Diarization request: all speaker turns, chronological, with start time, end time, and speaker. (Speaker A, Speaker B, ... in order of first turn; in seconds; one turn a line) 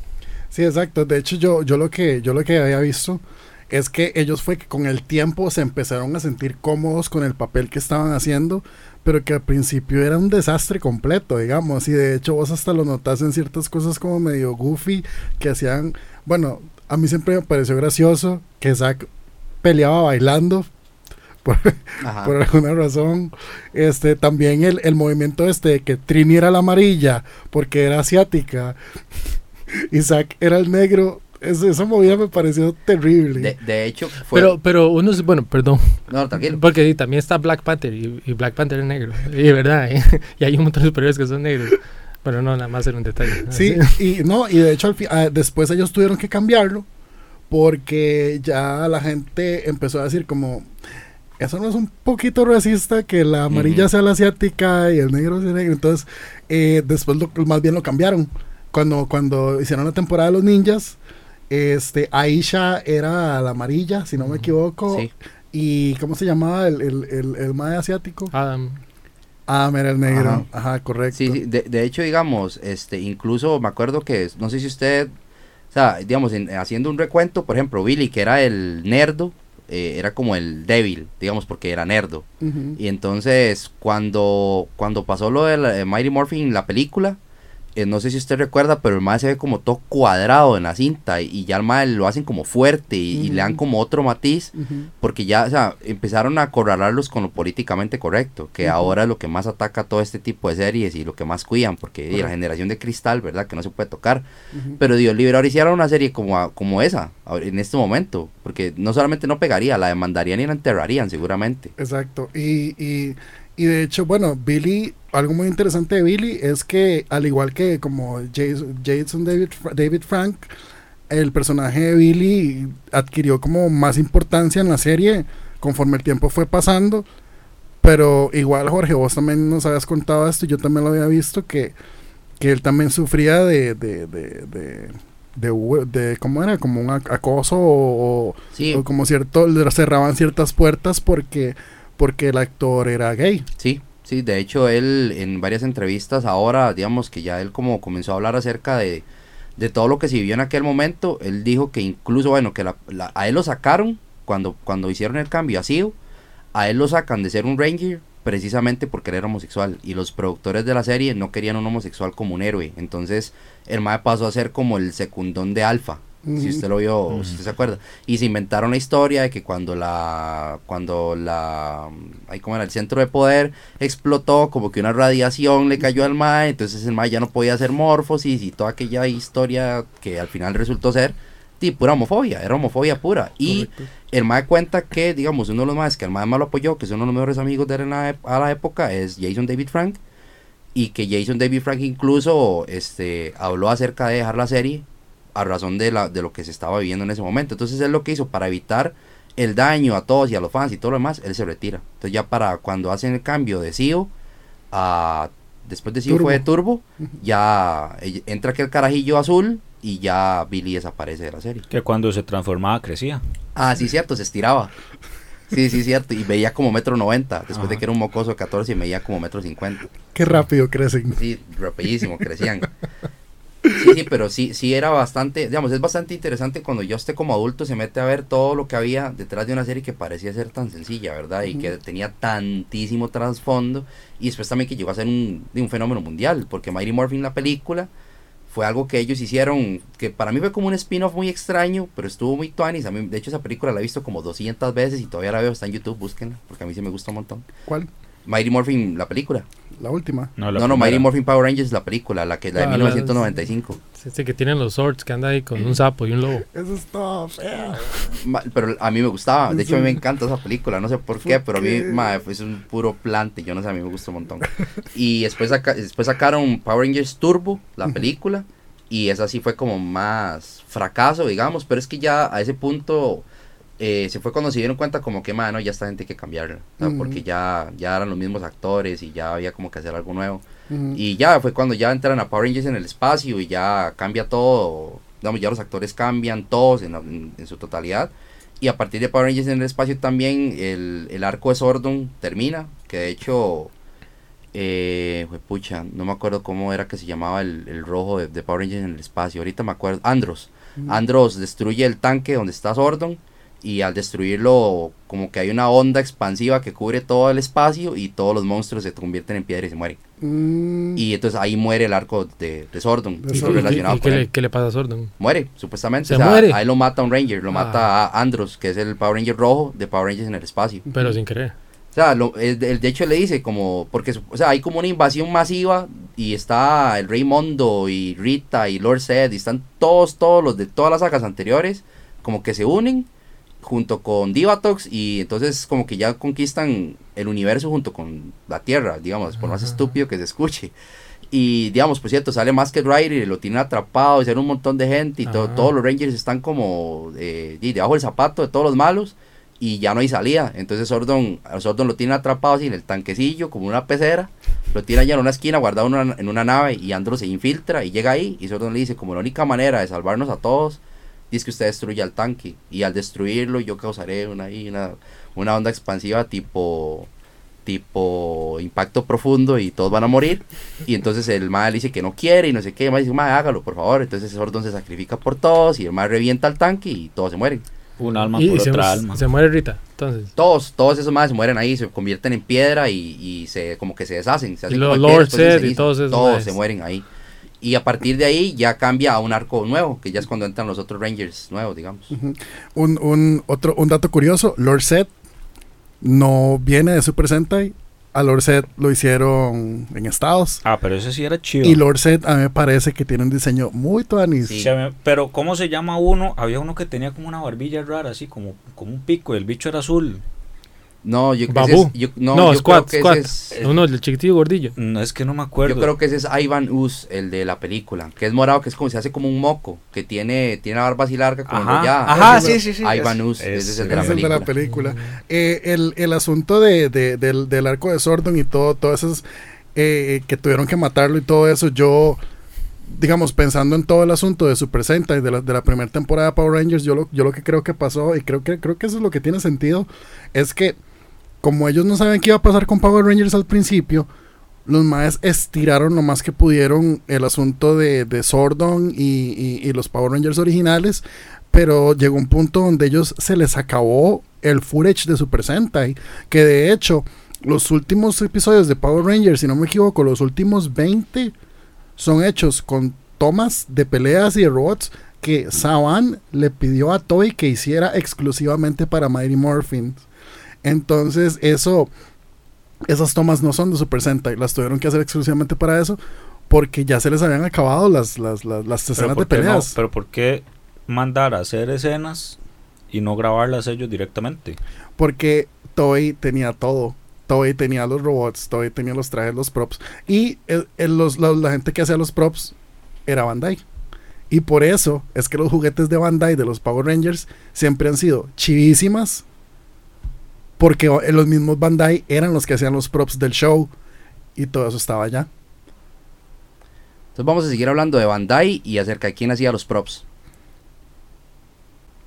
Speaker A: 0.5-19.1
Speaker A: 19.6-20.7
Speaker A: 21.4-28.8
Speaker B: 22.0-22.3
Speaker A: 29.7-33.5
Speaker B: 33.4-34.5
Speaker C: 34.3-44.0
Speaker B: 36.1-36.6
Speaker A: 43.5-46.9
Speaker A: 47.5-50.7
Speaker A: 51.4-61.0
Speaker B: 53.5-53.9
Speaker A: 61.5-68.3
Speaker C: 68.3-68.8
Speaker A: 69.5-71.4
Speaker B: 70.1-70.5
Speaker B: 71.1-75.1
Speaker B: 75.7-82.3
Speaker A: 82.4-82.8
Speaker B: 82.8-87.2
Speaker B: 87.8-104.3
Speaker A: 93.1-93.6
Speaker A: 94.6-94.9
Speaker A: 98.6-99.0
Speaker A: 104.5-104.8
Speaker B: 104.8-111.7
Speaker A: 111.8-120.5
Speaker A: 121.1-127.1
Speaker A: 127.8-131.8
Speaker A: 132.4-143.5
Speaker B: 138.6-138.8
Speaker B: 143.6-149.1
Speaker B: 149.6-155.9
Speaker B: 156.5-190.0
Speaker A: 166.2-166.6
Speaker D: 167.1-167.4
Speaker A: 183.4-183.9
Speaker B: 190.8-204.1
Speaker B: 204.7-211.6
Speaker A: 206.1-206.4
Speaker D: 211.7-213.2
Speaker B: 213.6-214.7
Speaker B: 215.5-219.9
Speaker D: 217.5-217.8
Speaker A: 220.1-221.2
Speaker B: 221.2-222.7
Speaker A: 223.7-223.9
Speaker B: 223.7-237.9
Speaker B: 238.5-247.5
Speaker B: 248.3-249.5
Speaker A: 249.8-250.3
Speaker D: 250.4-251.1
Speaker B: 250.6-253.8
Speaker C: 252.6-253.3
Speaker C: 254.0-256.4
Speaker A: 256.5-258.2
Speaker B: 258.1-273.2
Speaker A: 259.5-260.0
Speaker A: 261.2-262.1
Speaker B: 273.8-293.7
Speaker A: 276.8-277.2
Speaker A: 280.7-281.0
Speaker B: 294.5-310.0
Speaker A: 310.2-311.0
Speaker B: 311.0-314.3
Speaker A: 313.2-313.9
Speaker C: 313.3-315.1
Speaker B: 315.2-320.9
Speaker C: 316.1-316.6
Speaker C: 317.5-317.9
Speaker C: 320.9-321.6
Speaker B: 321.9-333.1
Speaker B: 333.6-340.7
Speaker B: 341.3-360.8
Speaker C: 345.2-345.7
Speaker B: 361.3-367.1
Speaker B: 367.7-377.6
Speaker D: 378.0-379.2
Speaker C: 378.3-380.3
Speaker B: 380.4-387.1
Speaker C: 384.7-386.6
Speaker B: 387.6-392.1
Speaker A: 392.1-395.1
Speaker A: 396.0-400.6
Speaker D: 400.6-401.8
Speaker A: 401.6-404.7
Speaker B: 404.4-404.7
Speaker D: 404.6-410.2
Speaker B: 411.0-413.6
Speaker C: 411.5-414.8
Speaker D: 413.5-413.8
Speaker D: 414.8-415.9
Speaker B: 415.6-424.5
Speaker D: 421.5-424.4
Speaker A: 422.1-422.6
Speaker A: 423.9-429.2
Speaker C: 424.6-425.2
Speaker A: 429.8-432.2
Speaker A: 432.9-440.8
Speaker A: 441.4-444.1
Speaker A: 444.7-461.3
Speaker A: 462.0-470.1
Speaker A: 470.6-471.9
Speaker A: 472.9-479.8
Speaker D: 478.9-482.4
Speaker D: 482.9-484.6
Speaker A: 485.0-492.6
Speaker A: 493.1-493.6
Speaker A: 494.3-499.2
Speaker A: 500.6-503.7
Speaker A: 504.4-505.3
Speaker B: 507.2-510.0